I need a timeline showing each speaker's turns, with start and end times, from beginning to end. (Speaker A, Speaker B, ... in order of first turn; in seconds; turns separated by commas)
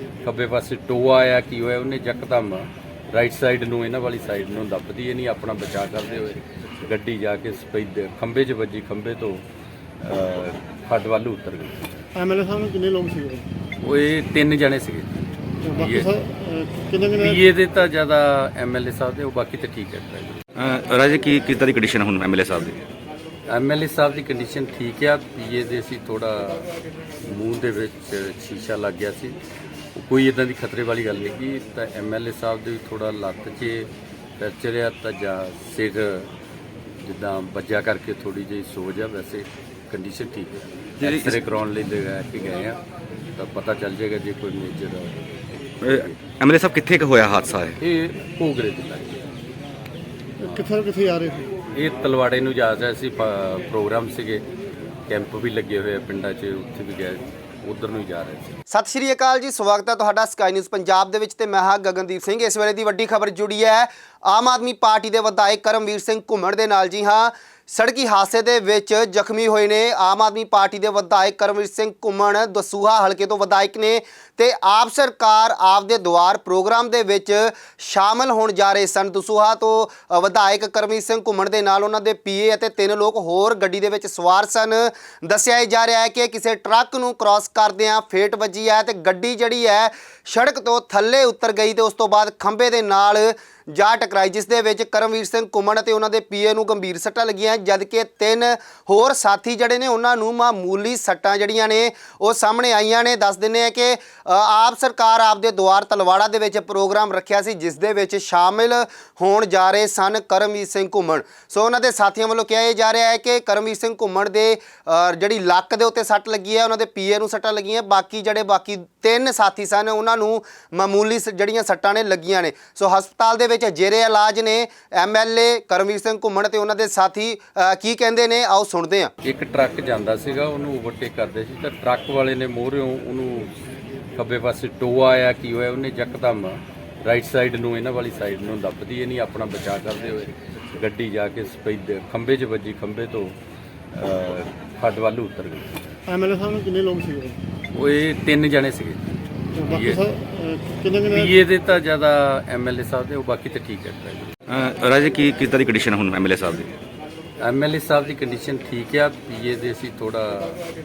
Speaker A: 0.2-9.4, Speaker A: 10.0-12.0, Speaker B: 12.2-13.5, Speaker A: 13.8-15.1, Speaker B: 15.6-17.4, Speaker A: 15.7-16.1, Speaker A: 17.2-20.4, Speaker C: 20.6-22.8, Speaker A: 23.5-26.7, Speaker A: 27.2-29.4, Speaker A: 29.9-36.3, Speaker A: 37.0-42.8, Speaker C: 41.0-41.4, Speaker A: 43.4-46.2, Speaker C: 45.8-47.8, Speaker A: 47.8-49.2, Speaker B: 50.4-51.5, Speaker A: 51.7-54.4, Speaker A: 55.1-58.5, Speaker D: 58.7-129.1, Speaker A: 129.2-133.5, Speaker A: 134.2-143.4, Speaker A: 143.9-145.9, Speaker B: 146.1-147.4, Speaker A: 147.7-149.0, Speaker A: 149.6-150.0, Speaker B: 149.6-151.3, Speaker A: 151.1-154.3, Speaker C: 154.5-156.7, Speaker A: 157.4-160.6